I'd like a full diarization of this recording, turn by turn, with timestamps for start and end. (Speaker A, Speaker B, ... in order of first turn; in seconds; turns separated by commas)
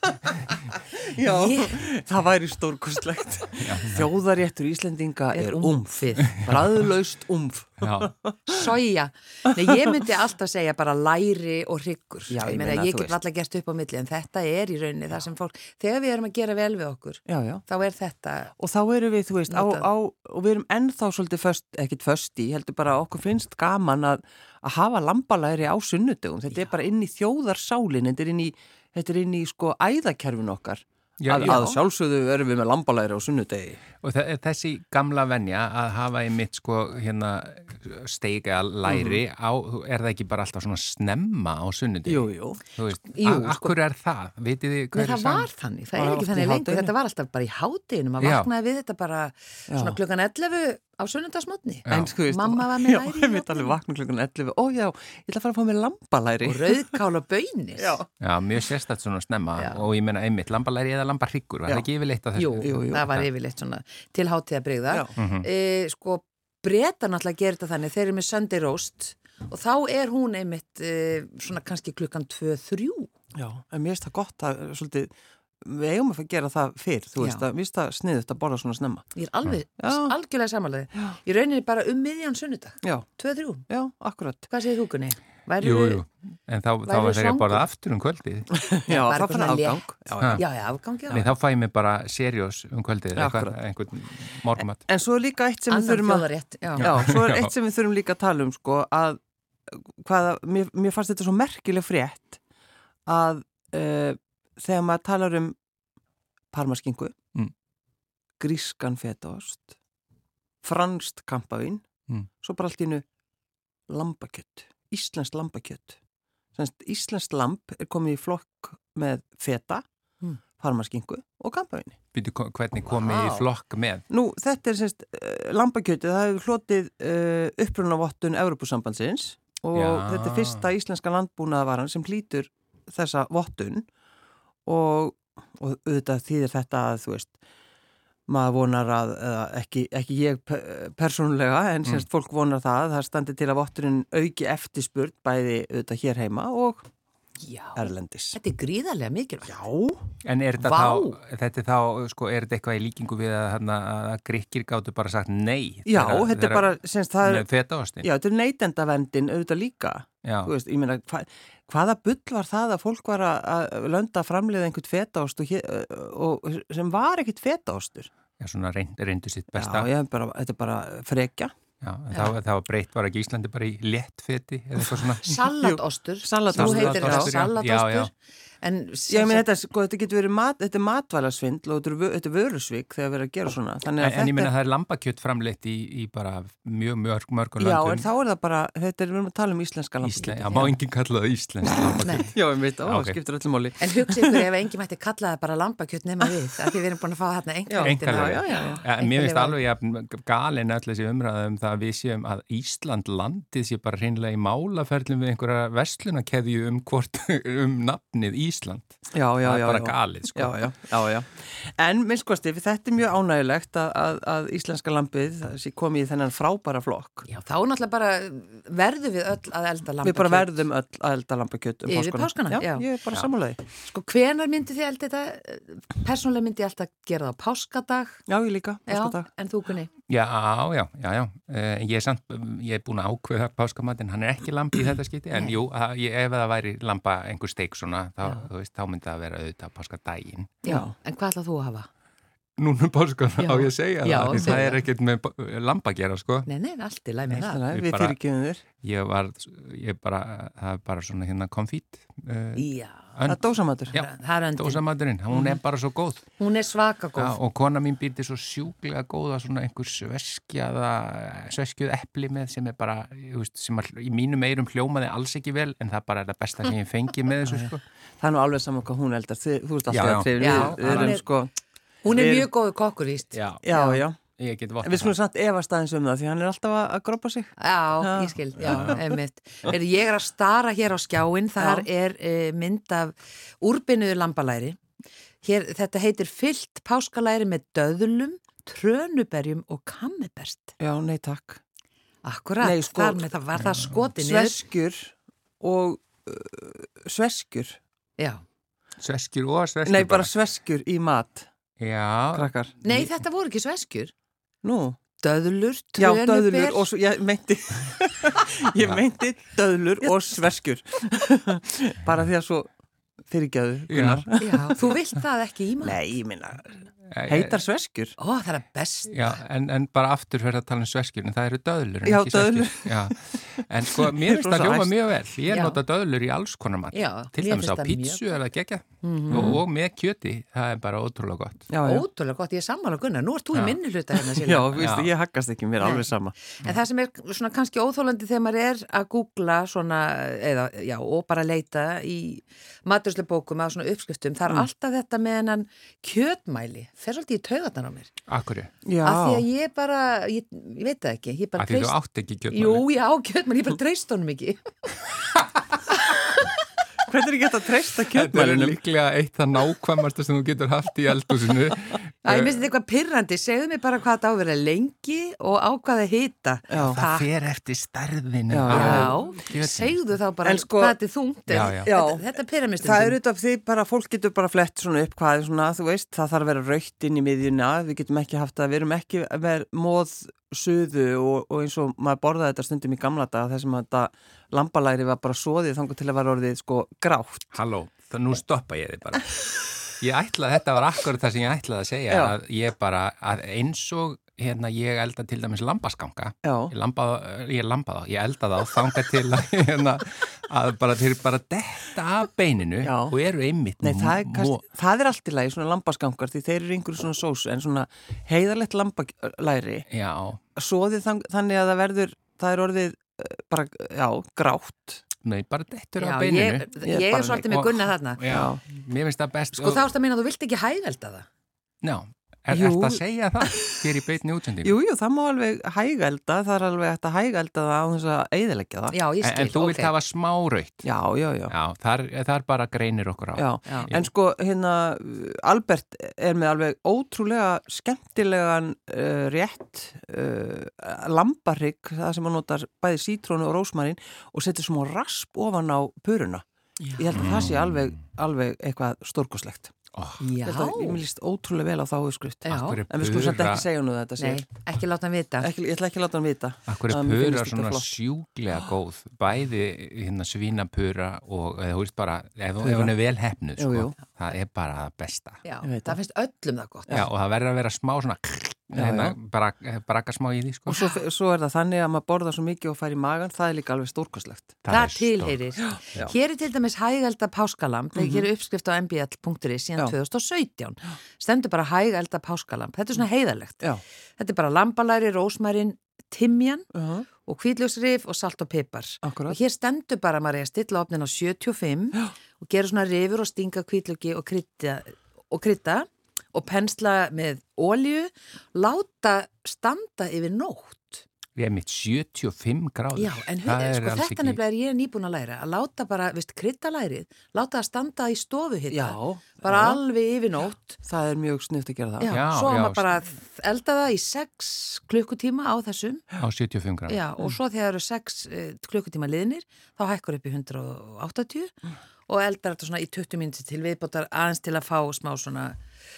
Speaker A: 0.7-8.4, Speaker B: 1.2-1.8, Speaker C: 3.6-4.1, Speaker B: 5.3-6.4, Speaker C: 6.3-6.7, Speaker C: 7.8-8.1, Speaker B: 8.5-18.5, Speaker A: 12.3-13.2, Speaker A: 17.3-17.6, Speaker A: 18.6-33.8, Speaker B: 19.5-19.9, Speaker C: 31.2-31.8, Speaker C: 34.0-45.5, Speaker A: 38.9-39.2, Speaker A: 42.0-42.6, Speaker B: 43.1-43.7, Speaker B: 44.9-53.8, Speaker A: 45.9-46.9, Speaker C: 48.2-48.5, Speaker A: 49.7-50.0, Speaker C: 51.9-52.1, Speaker A: 51.9-57.0, Speaker B: 56.4-58.0, Speaker A: 57.8-58.1, Speaker C: 58.2-63.2, Speaker B: 62.4-73.1, Speaker A: 62.6-63.0, Speaker C: 65.2-65.5, Speaker A: 73.3-79.0, Speaker B: 77.2-77.4, Speaker B: 79.1-83.7, Speaker A: 79.8-80.1, Speaker A: 82.8-83.1, Speaker A: 83.7-84.5, Speaker B: 84.5-86.0, Speaker C: 85.6-88.5, Speaker B: 86.8-87.6, Speaker A: 88.5-90.4, Speaker B: 88.9-91.3, Speaker C: 91.1-94.8, Speaker A: 93.1-93.5, Speaker A: 94.8-102.4, Speaker B: 95.7-96.9, Speaker C: 96.8-97.5, Speaker A: 103.1-105.5, Speaker A: 106.5-107.1, Speaker A: 108.4-109.7, Speaker A: 110.6-111.8, Speaker A: 112.4-113.0, Speaker A: 113.9-116.0, Speaker A: 116.5-119.8, Speaker A: 120.5-122.0, Speaker C: 122.1-124.0, Speaker B: 123.0-123.4, Speaker A: 124.1-133.9, Speaker C: 129.7-130.7, Speaker A: 134.7-137.3, Speaker A: 138.3-146.8, Speaker B: 147.4-149.6, Speaker A: 147.8-148.4, Speaker A: 149.5-150.0, Speaker C: 150.2-158.1, Speaker B: 150.6-151.2, Speaker A: 155.8-157.5, Speaker A: 158.0-168.1, Speaker C: 160.2-160.5, Speaker C: 168.4-169.9, Speaker A: 169.6-171.5, Speaker C: 171.8-175.2, Speaker A: 174.9-177.3, Speaker B: 175.2-179.4, Speaker C: 176.5-178.1, Speaker A: 179.1-184.5, Speaker C: 184.0-188.1, Speaker A: 187.6-190.8, Speaker C: 190.0-193.2, Speaker A: 191.9-194.5, Speaker B: 192.0-192.3, Speaker B: 193.8-199.6, Speaker A: 197.7-198.8, Speaker C: 197.8-210.6, Speaker A: 209.1-217.3, Speaker B: 217.2-220.5, Speaker A: 220.0-223.6, Speaker B: 221.9-222.9, Speaker B: 223.8-228.2, Speaker A: 228.3-229.3, Speaker B: 228.9-229.9, Speaker C: 230.1-240.6, Speaker B: 235.3-235.6, Speaker A: 240.6-240.9, Speaker B: 240.6-241.9, Speaker C: 242.6-246.5, Speaker B: 243.4-244.8, Speaker A: 244.3-244.6, Speaker B: 246.4-247.6, Speaker A: 247.3-248.6, Speaker C: 247.7-248.2, Speaker C: 248.8-256.2, Speaker B: 252.6-253.2, Speaker A: 253.2-254.0, Speaker B: 253.9-254.8, Speaker A: 255.3-255.6, Speaker B: 256.4-257.4, Speaker C: 257.1-267.8, Speaker A: 267.5-271.5, Speaker C: 269.9-271.2, Speaker B: 270.4-271.2, Speaker B: 272.0-274.0, Speaker A: 272.1-272.5, Speaker C: 273.3-273.6, Speaker A: 273.6-274.2, Speaker C: 274.4-275.1, Speaker A: 274.8-279.2, Speaker B: 277.6-284.8, Speaker A: 281.6-281.9, Speaker B: 285.4-290.7, Speaker A: 290.8-291.6, Speaker B: 292.2-294.6, Speaker A: 292.6-293.3, Speaker A: 294.1-297.8, Speaker C: 299.0-300.3, Speaker A: 299.8-301.5, Speaker C: 301.8-303.1, Speaker A: 302.3-302.7, Speaker B: 302.8-304.1, Speaker A: 304.6-305.0, Speaker B: 305.2-306.9, Speaker A: 306.0-312.7, Speaker A: 313.2-314.8, Speaker C: 313.9-314.2, Speaker B: 314.4-316.2, Speaker A: 315.8-316.8, Speaker C: 317.1-317.6, Speaker A: 317.3-318.1, Speaker B: 318.2-319.4, Speaker C: 319.1-331.7, Speaker A: 322.0-324.9, Speaker B: 325.5-325.8, Speaker B: 326.9-328.2, Speaker B: 329.0-329.6, Speaker A: 329.3-329.6, Speaker A: 331.7-332.1, Speaker B: 331.8-334.8, Speaker A: 334.2-336.4, Speaker C: 334.8-335.1, Speaker B: 335.8-348.1, Speaker C: 348.3-348.7, Speaker A: 348.9-349.4, Speaker B: 349.0-351.9, Speaker C: 351.6-352.9, Speaker B: 352.5-354.6, Speaker A: 357.1-358.8, Speaker C: 358.0-362.1, Speaker B: 362.2-367.3, Speaker A: 366.7-367.0, Speaker C: 366.8-370.0, Speaker A: 368.5-369.2, Speaker B: 368.7-373.2, Speaker A: 370.4-371.0, Speaker C: 371.5-371.9, Speaker A: 371.6-372.3, Speaker A: 372.8-387.5, Speaker C: 387.5-404.6, Speaker A: 392.1-392.4, Speaker A: 396.4-396.7, Speaker A: 402.8-403.2, Speaker A: 403.8-409.9, Speaker C: 409.9-410.4, Speaker A: 410.5-415.0, Speaker C: 415.2-416.7, Speaker B: 416.0-418.2, Speaker A: 416.8-417.4, Speaker C: 417.4-419.9, Speaker A: 418.2-418.6, Speaker B: 419.5-421.3, Speaker C: 421.8-424.7, Speaker A: 422.5-423.7, Speaker A: 424.6-429.0, Speaker B: 428.9-429.9, Speaker C: 429.2-430.9, Speaker A: 430.8-431.5, Speaker C: 431.5-434.1, Speaker A: 433.4-446.4, Speaker B: 446.8-447.2, Speaker A: 447.0-449.7, Speaker C: 447.1-448.0, Speaker C: 449.9-450.2, Speaker B: 450.2-451.0, Speaker A: 450.4-454.5, Speaker B: 452.4-452.8, Speaker C: 452.5-453.7, Speaker B: 454.2-455.5, Speaker A: 455.4-457.9, Speaker C: 456.7-465.4, Speaker A: 462.6-462.9, Speaker A: 463.6-463.9, Speaker B: 465.4-467.1, Speaker A: 465.6-466.0, Speaker C: 466.9-470.8, Speaker A: 468.7-469.1, Speaker A: 470.7-474.6, Speaker B: 470.7-471.0, Speaker C: 474.6-476.1, Speaker B: 474.7-483.6, Speaker A: 475.6-476.1, Speaker A: 477.9-478.3, Speaker B: 484.2-486.7, Speaker A: 486.7-487.1, Speaker B: 487.2-501.0, Speaker A: 489.0-489.4, Speaker C: 501.4-504.4, Speaker B: 502.9-510.8, Speaker A: 508.7-509.8, Speaker A: 510.8-512.1, Speaker B: 512.0-516.0, Speaker C: 512.1-513.0, Speaker C: 516.2-517.0, Speaker B: 516.9-521.5, Speaker B: 522.1-525.6